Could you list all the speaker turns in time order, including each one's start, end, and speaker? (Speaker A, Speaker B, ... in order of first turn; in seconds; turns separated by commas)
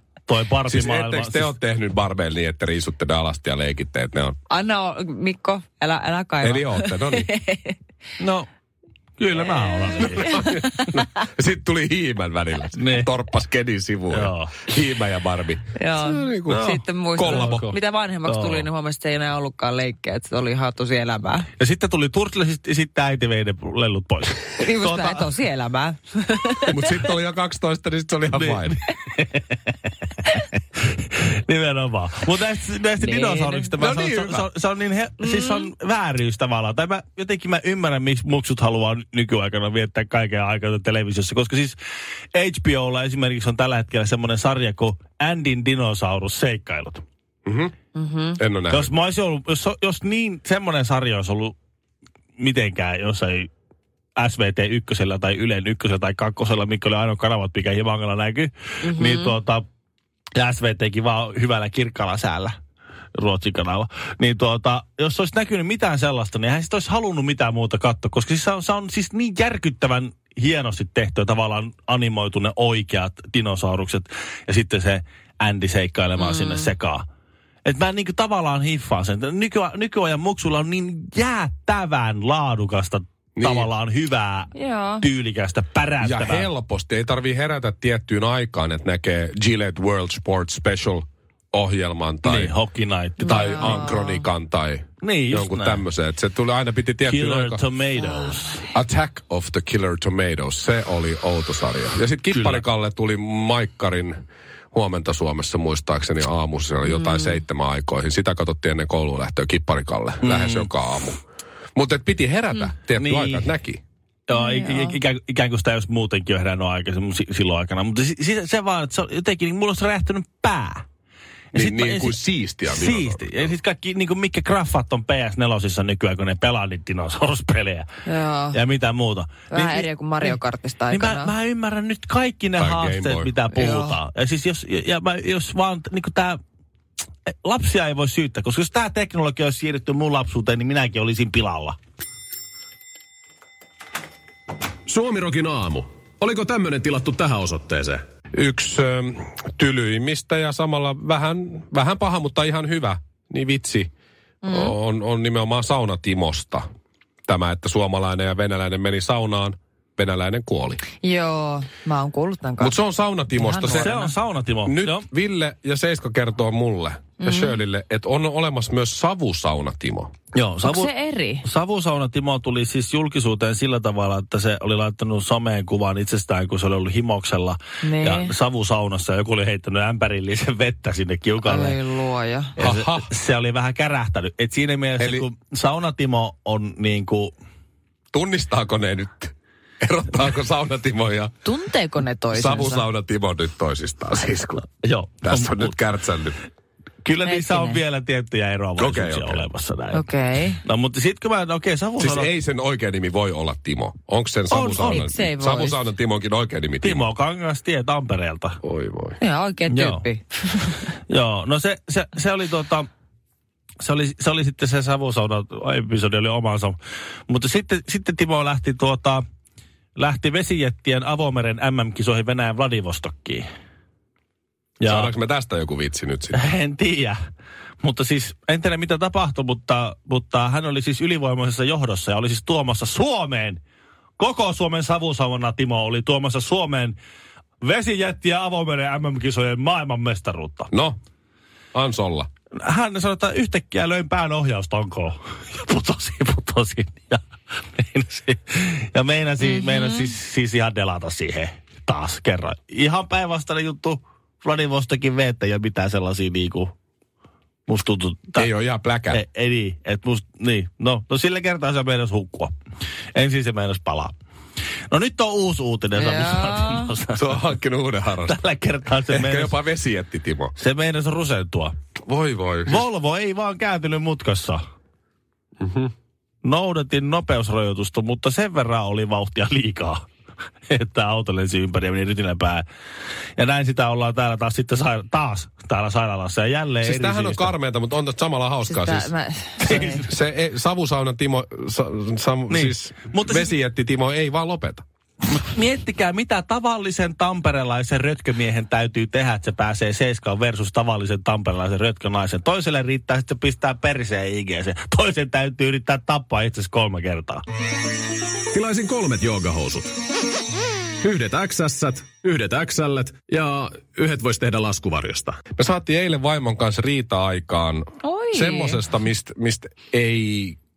Speaker A: 0.3-1.5, Speaker B: 0.7-4.4, Speaker C: 4.5-7.8, Speaker B: 6.4-7.3, Speaker A: 8.2-8.5, Speaker A: 9.2-10.5, Speaker B: 10.0-17.7, Speaker C: 10.1-10.6, Speaker A: 12.8-13.1, Speaker A: 14.1-14.6, Speaker C: 15.7-21.5, Speaker A: 16.5-18.6, Speaker A: 21.6-25.3, Speaker C: 24.6-26.7, Speaker B: 26.7-28.8, Speaker A: 28.3-29.7, Speaker A: 30.2-41.8, Speaker C: 33.0-33.7, Speaker B: 33.8-34.5, Speaker C: 35.2-35.7, Speaker A: 42.3-47.0, Speaker B: 47.4-47.7, Speaker C: 47.9-48.4, Speaker B: 48.4-48.9, Speaker A: 48.7-51.5, Speaker A: 52.4-53.5, Speaker A: 54.1-59.6, Speaker C: 58.8-59.4, Speaker A: 60.4-62.6, Speaker A: 63.1-77.0, Speaker C: 76.2-76.7, Speaker A: 77.6-86.5, Speaker B: 83.4-83.7, Speaker C: 84.5-85.0, Speaker B: 86.0-92.5, Speaker A: 92.2-93.9, Speaker C: 93.2-94.2, Speaker B: 93.2-97.6, Speaker A: 95.0-95.8, Speaker A: 97.0-98.7, Speaker B: 98.7-104.2, Speaker A: 102.3-102.6, Speaker B: 104.7-111.2, Speaker C: 107.0-107.3, Speaker A: 110.2-110.7, Speaker B: 111.8-113.8, Speaker A: 113.0-113.5, Speaker A: 114.3-120.8, Speaker C: 114.3-115.0, Speaker B: 121.5-123.5, Speaker A: 121.5-127.9, Speaker C: 128.1-128.6, Speaker A: 128.5-130.4, Speaker C: 129.5-131.3, Speaker A: 130.9-136.4, Speaker B: 132.6-133.6, Speaker C: 133.6-134.0, Speaker A: 137.3-141.8, Speaker D: 144.9-148.0, Speaker B: 148.3-153.9, Speaker C: 154.4-154.7, Speaker B: 154.4-156.6, Speaker B: 157.3-160.8, Speaker C: 161.0-162.8, Speaker B: 162.6-163.9, Speaker C: 163.3-164.1, Speaker A: 163.7-165.1, Speaker B: 164.7-170.1, Speaker C: 167.2-167.6, Speaker A: 170.3-170.9, Speaker C: 170.6-171.4, Speaker A: 171.4-181.8, Speaker C: 177.8-178.3, Speaker C: 181.4-182.5, Speaker A: 182.6-187.3, Speaker B: 182.6-183.1, Speaker B: 185.0-185.2, Speaker B: 188.1-191.3, Speaker C: 191.4-192.8, Speaker B: 192.3-194.7, Speaker A: 194.8-195.7, Speaker B: 195.2-196.3, Speaker A: 197.0-200.1, Speaker C: 197.2-197.8, Speaker B: 198.8-199.4, Speaker C: 199.9-200.6, Speaker A: 200.6-202.3, Speaker B: 202.0-207.1, Speaker A: 204.5-205.1, Speaker C: 204.9-205.8, Speaker A: 206.8-208.6, Speaker B: 208.6-209.2, Speaker C: 209.2-210.5, Speaker A: 209.7-210.1, Speaker A: 211.1-212.9, Speaker A: 213.8-216.8, Speaker A: 217.3-219.2, Speaker A: 219.9-223.4, Speaker A: 224.8-225.1, Speaker B: 224.8-226.4, Speaker A: 226.3-227.2, Speaker A: 227.8-233.6, Speaker A: 234.2-237.0, Speaker A: 237.6-240.7, Speaker B: 240.7-241.0, Speaker B: 241.7-242.3, Speaker A: 242.6-256.7, Speaker A: 257.7-258.5, Speaker B: 258.4-259.2, Speaker A: 259.1-262.5, Speaker A: 263.1-264.1, Speaker A: 264.9-267.4, Speaker C: 265.9-266.9, Speaker B: 267.1-268.4, Speaker A: 268.3-269.5, Speaker B: 269.1-270.5, Speaker A: 270.6-271.7, Speaker B: 272.1-272.9, Speaker A: 272.7-274.6, Speaker B: 275.6-275.9, Speaker A: 276.4-280.1, Speaker A: 280.7-282.6, Speaker A: 283.4-287.5, Speaker B: 286.8-294.8, Speaker C: 288.7-289.7, Speaker A: 289.6-290.0, Speaker A: 292.5-293.5, Speaker A: 295.3-307.4, Speaker D: 308.5-309.9, Speaker D: 311.0-315.4, Speaker B: 315.6-320.6, Speaker C: 318.0-318.8